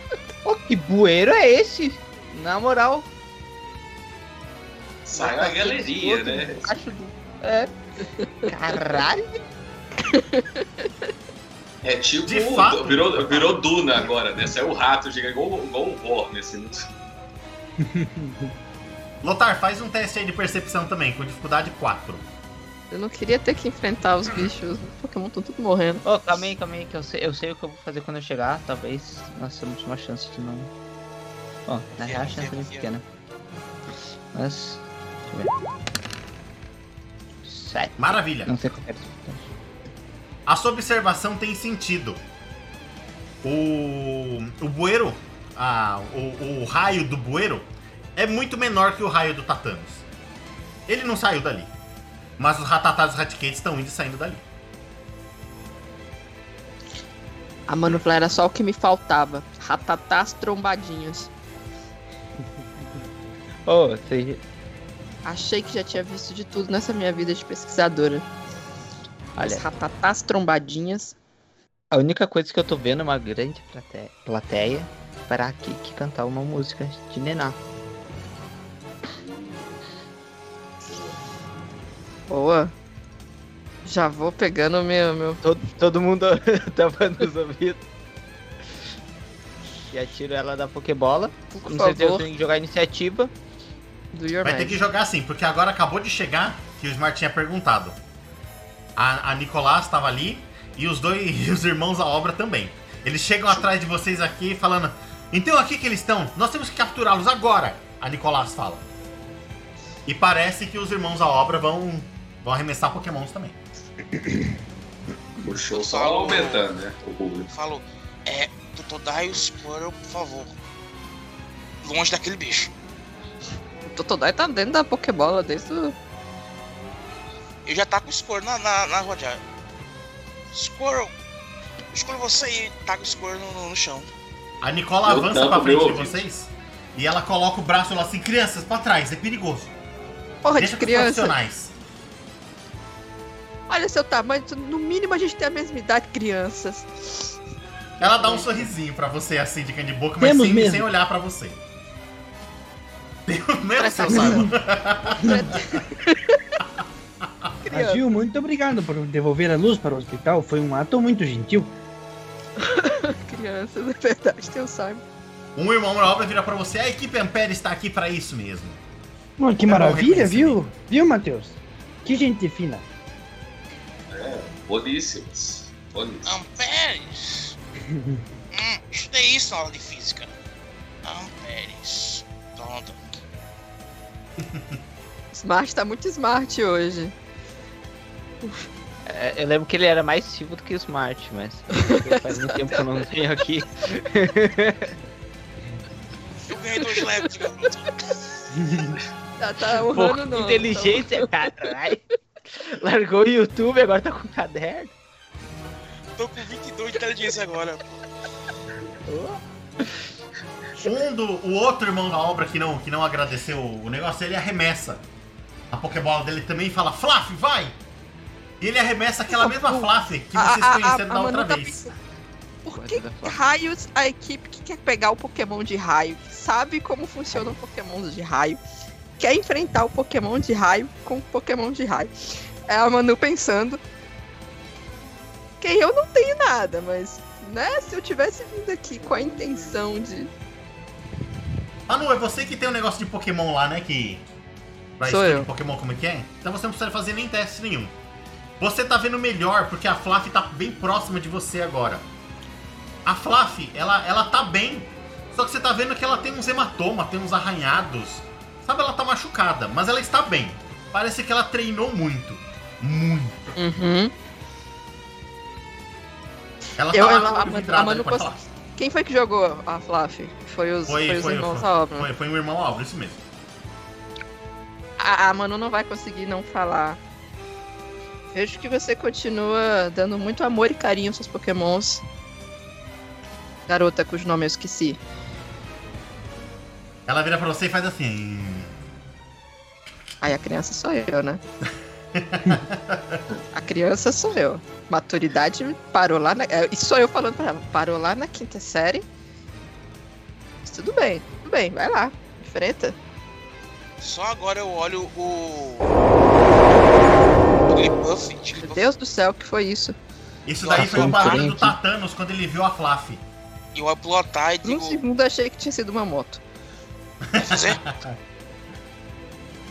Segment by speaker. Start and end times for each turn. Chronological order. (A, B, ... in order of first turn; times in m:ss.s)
0:00.4-0:03.1 A
0:05.0-0:06.7 B
0:05.1-0:07.7 A
0:08.2-0:08.9 C
0:08.4-0:09.3 A
0:10.1-0:10.9 C
0:11.8-0:16.9 B
0:12.2-0:13.5 D
0:17.8-0:18.5 E
0:19.2-0:22.3 D
0:22.9-0:26.0 C
0:26.0-0:30.7 A
0:31.6-0:33.0 A
0:32.0-0:32.9 F
0:34.3-0:35.5 A
0:37.4-0:39.5 A
0:38.0-0:38.5 D
0:40.5-0:42.2 D
0:43.4-0:50.0 D
0:50.9-0:51.7 D
0:52.4-0:54.4 D
0:57.7-1:01.3 C
1:03.6-1:04.4 A
1:05.2-1:08.2 C
1:09.3-1:09.6 A
1:09.4-1:11.1 C
1:11.9-1:17.6 A
1:19.0-1:19.8 B
1:20.8-1:21.2 B
1:22.3-1:22.7 C
1:23.8-1:25.4 C
1:25.4-1:27.8 A
1:29.9-1:33.3 A
1:31.5-1:32.2 C
1:34.1-1:34.8 C
1:34.4-1:38.0 D
1:39.0-1:48.8 D
1:50.0-1:53.6 D
1:55.4-1:57.5 B
1:55.7-1:56.7 F
1:57.5-2:00.5 F
2:01.8-2:02.7 F
2:03.9-2:05.9 C
2:07.6-2:09.4 F
2:10.5-2:11.1 F
2:11.9-2:14.1 F
2:14.6-2:19.7 D
2:15.0-2:16.2 B
2:20.4-2:21.3 C
2:20.6-2:21.7 D
2:23.7-2:27.3 C
2:28.0-2:31.6 D
2:30.2-2:30.9 E
2:33.3-2:35.6 D
2:33.8-2:34.5 C
2:34.2-2:34.4 E
2:35.3-2:36.6 C
2:37.2-2:37.5 D
2:37.6-2:38.0 C
2:37.7-2:41.7 E
2:42.6-2:45.0 C
2:45.6-2:48.8 D
2:49.4-2:52.8 E
2:49.7-2:50.7 D
2:54.1-2:56.3 B
2:56.2-2:57.6 F
2:57.9-2:58.2 E
2:58.5-3:00.3 F
3:01.0-3:03.0 F
3:04.4-3:04.7 D
3:05.3-3:07.1 C
3:09.0-3:14.9 A
3:11.8-3:12.7 C
3:16.5-3:18.1 F
3:18.5-3:19.0 E
3:19.4-3:21.3 C
3:19.7-3:24.9 A
3:26.2-3:28.0 F
3:29.1-3:30.0 A
3:30.8-3:35.0 D
3:35.7-3:37.7 D
3:38.6-3:41.8 D
3:39.3-3:41.9 C
3:42.6-3:48.6 C
3:42.7-3:43.4 A
3:49.2-3:52.1 C
3:52.7-3:53.8 C
3:55.6-4:00.3 C
4:01.9-4:04.2 D
4:05.0-4:07.9 D
4:05.0-4:05.5 C
4:08.6-4:12.0 D
4:13.0-4:23.5 D
4:23.6-4:24.1 C
4:26.8-4:28.4 D
4:26.9-4:32.1 C
4:30.8-4:33.2 D
4:35.0-4:37.0 C
4:38.3-4:42.0 C
4:43.7-4:45.0 C
4:47.1-4:48.7 D
4:50.2-4:51.4 C
4:52.1-4:53.2 D
4:53.5-4:59.0 C
5:00.6-5:03.0 C
5:04.0-5:06.0 F
5:07.6-5:08.9 F
5:08.6-5:10.0 C
5:10.4-5:13.2 D
5:10.6-5:11.5 F
5:10.7-5:11.8 A
5:13.7-5:15.0 F
5:14.6-5:16.4 C
5:17.3-5:18.1 D
5:17.4-5:17.8 F